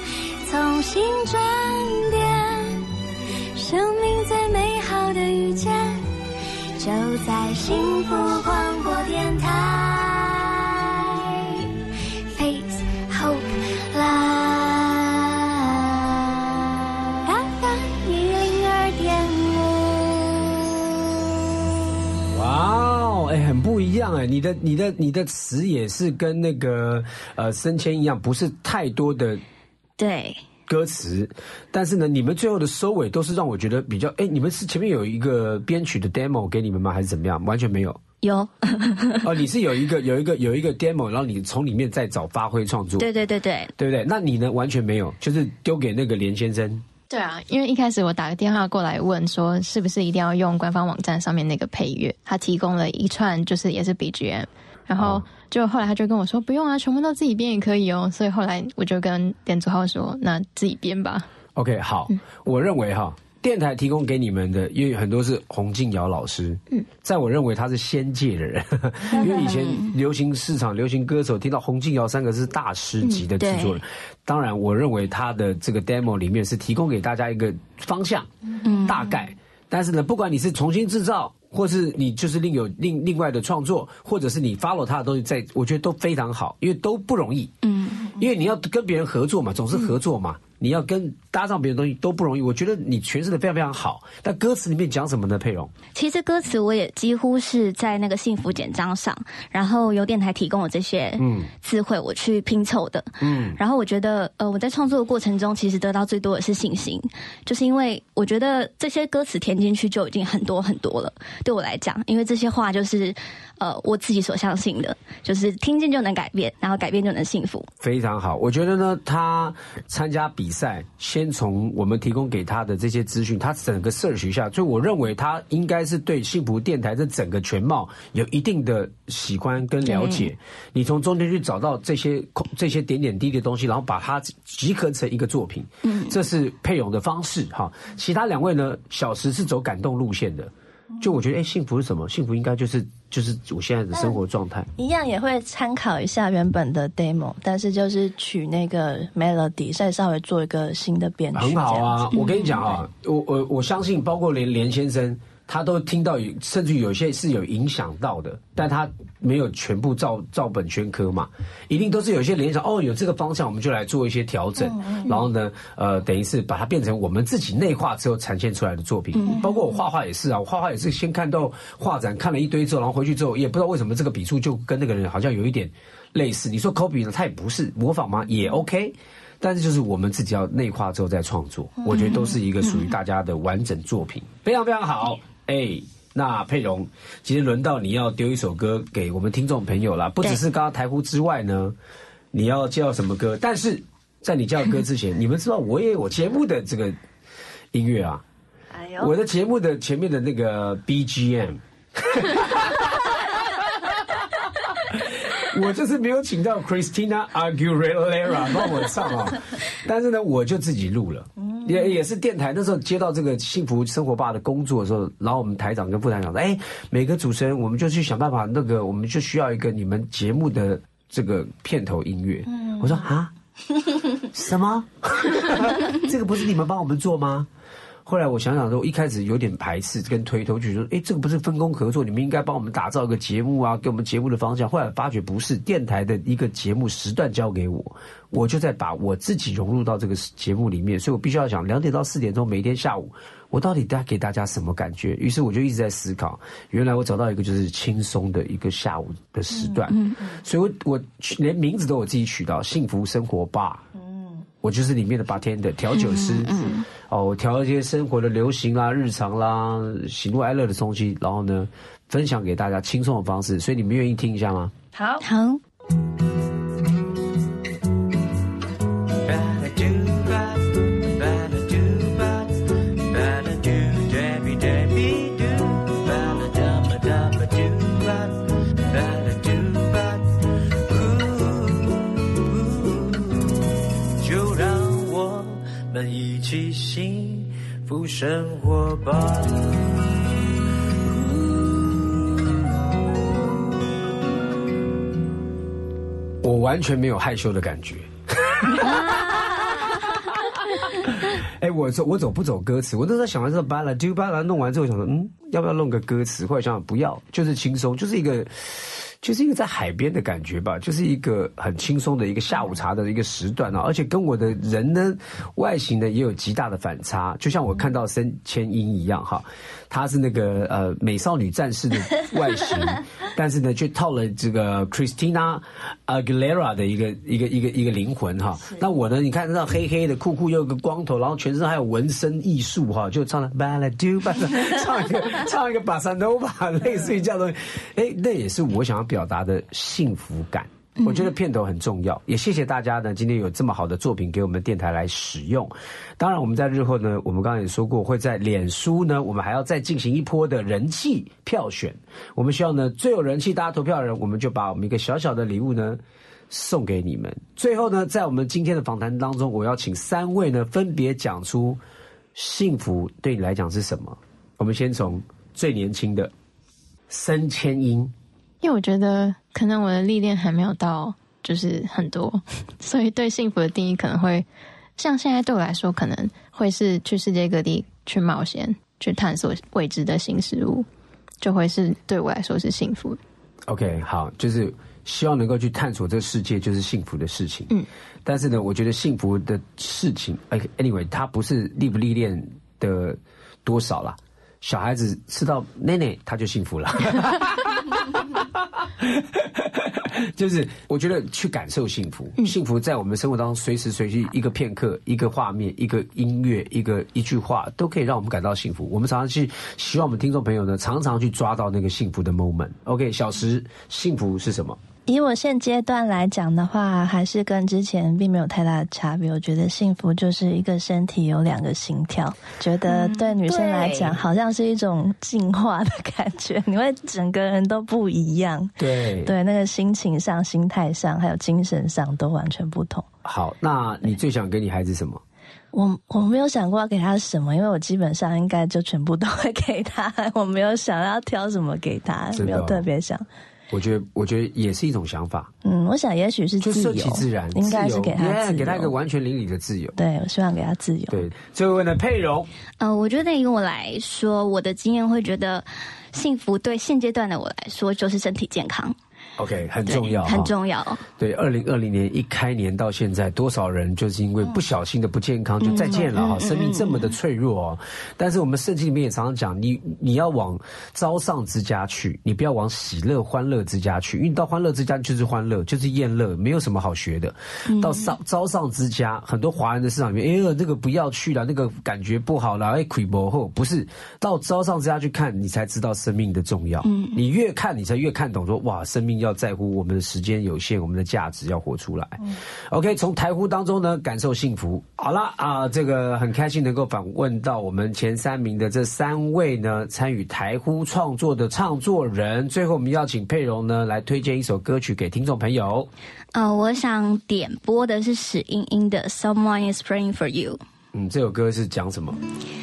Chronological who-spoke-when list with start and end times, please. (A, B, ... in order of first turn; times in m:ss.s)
0:00.5-0:02.8 A
0:03.6-0:06.0 A
0:06.8-0:10.5 A
0:12.4-0:15.0 A
0:22.3-0:29.4 B
0:30.0-0:30.4 C
0:30.7-0:38.0 B
0:38.2-0:39.3 C
0:39.2-0:43.1 B
0:43.0-0:43.7 C
0:43.8-0:46.8 B
0:47.1-1:01.3 D
0:55.0-0:55.2 B
1:01.6-1:18.3 B
1:09.1-1:09.9 C
1:13.0-1:13.8 C
1:18.6-1:19.1 C
1:18.8-1:27.5 B
1:27.6-1:28.1 C
1:28.2-1:35.7 B
1:35.9-1:57.7 C
1:41.2-1:41.5 B
1:43.2-1:43.6 B
1:57.8-2:24.7 B
2:09.8-2:10.3 C
2:15.8-2:16.2 C
2:24.8-2:32.2 E
2:31.3-3:11.8 B
2:44.6-2:45.1 E
2:49.2-2:49.5 C
3:01.9-3:02.9 C
3:12.3-3:17.0 B
3:17.7-3:18.2 B
3:18.7-3:19.1 E
3:19.0-3:24.2 B
3:24.8-3:43.3 B
3:44.2-3:47.5 B
3:48.1-4:13.9 B
4:09.9-4:10.2 C
4:14.0-4:14.3 E
4:14.6-4:24.7 B
4:15.9-4:16.9 C
4:25.0-4:25.2 E
4:25.2-4:25.6 C
4:29.2-4:40.3 F
4:40.9-4:43.6 F
4:44.2-4:49.9 F
4:51.1-4:51.9 F
4:56.4-5:00.2 B
4:58.8-5:00.0 C
5:01.0-6:01.8 B
5:41.0-5:41.3 C
6:02.4-6:06.3 B
6:07.1-6:08.1 B
6:08.6-6:14.5 D
6:15.0-6:20.9 D
6:21.4-6:23.2 D
6:23.7-6:27.7 B
6:28.2-6:54.8 B
6:55.1-7:08.7 E
7:02.9-7:03.8 C
7:08.8-7:09.4 B
7:09.2-7:13.1 E
7:13.2-7:15.2 B
7:15.7-7:23.2 E
7:22.4-7:22.9 B
7:23.7-7:25.5 B
7:25.6-7:29.0 E
7:26.6-7:30.0 B
7:30.0-7:31.2 E
7:31.1-7:32.5 B
7:32.8-7:39.0 C
7:39.4-7:40.5 B
7:39.9-7:41.0 C
7:41.2-8:25.9 B
7:45.6-7:47.0 C
7:57.7-7:58.1 C
8:06.8-8:07.2 C
8:26.3-8:30.6 C
8:30.9-8:32.2 B